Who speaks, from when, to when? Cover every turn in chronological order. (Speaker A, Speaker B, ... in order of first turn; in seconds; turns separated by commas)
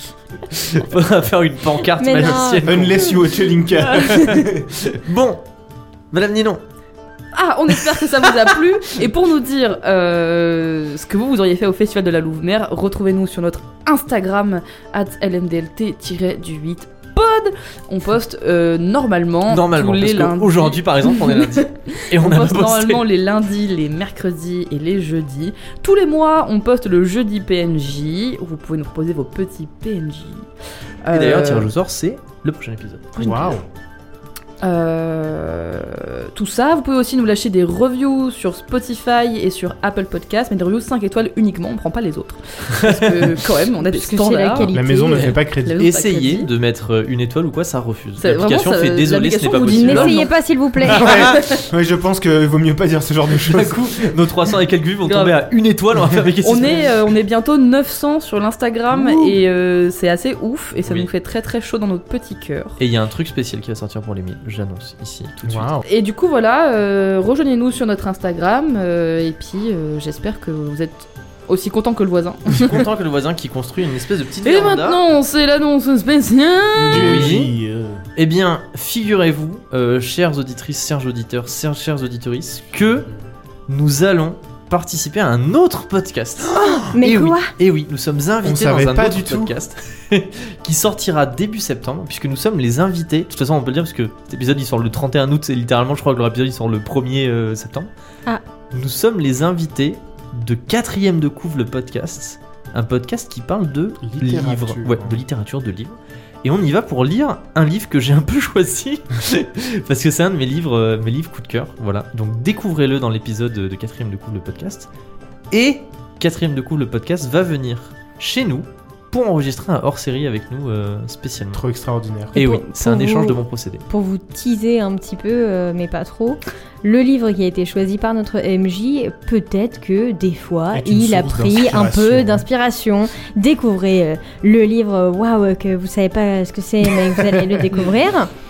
Speaker A: 0.5-3.2, Speaker B: 2.0-3.1, Speaker C: 2.6-4.8, Speaker A: 3.9-5.4, Speaker A: 6.1-6.6, Speaker D: 7.3-30.5, Speaker A: 19.5-23.0, Speaker D: 31.0-31.7, Speaker A: 31.1-33.3, Speaker C: 33.2-33.6, Speaker D: 33.2-33.6, Speaker D: 34.6-44.7, Speaker A: 42.8-43.3, Speaker B: 43.8-45.3, Speaker C: 44.7-45.8, Speaker A: 45.1-50.2, Speaker D: 45.6-46.5, Speaker D: 48.2-50.3, Speaker B: 49.7-51.1, Speaker A: 50.8-51.5, Speaker C: 50.9-53.9, Speaker D: 51.3-51.6, Speaker A: 53.5-56.9, Speaker D: 55.1-55.3, Speaker D: 56.4-62.8, Speaker B: 58.9-59.3, Speaker A: 62.8-65.7, Speaker C: 65.4-65.8, Speaker D: 65.8-72.9, Speaker A: 72.5-75.0, Speaker D: 74.4-77.3, Speaker C: 76.8-78.0, Speaker A: 76.9-77.5, Speaker A: 78.2-83.1, Speaker A: 83.7-97.9, Speaker C: 86.5-87.0, Speaker B: 86.5-87.5, Speaker C: 88.4-89.5, Speaker A: 98.7-114.9, Speaker C: 104.0-105.2, Speaker A: 115.5-121.6, Speaker C: 121.5-122.4, Speaker B: 122.3-138.3, Speaker A: 122.3-123.8, Speaker C: 130.7-132.4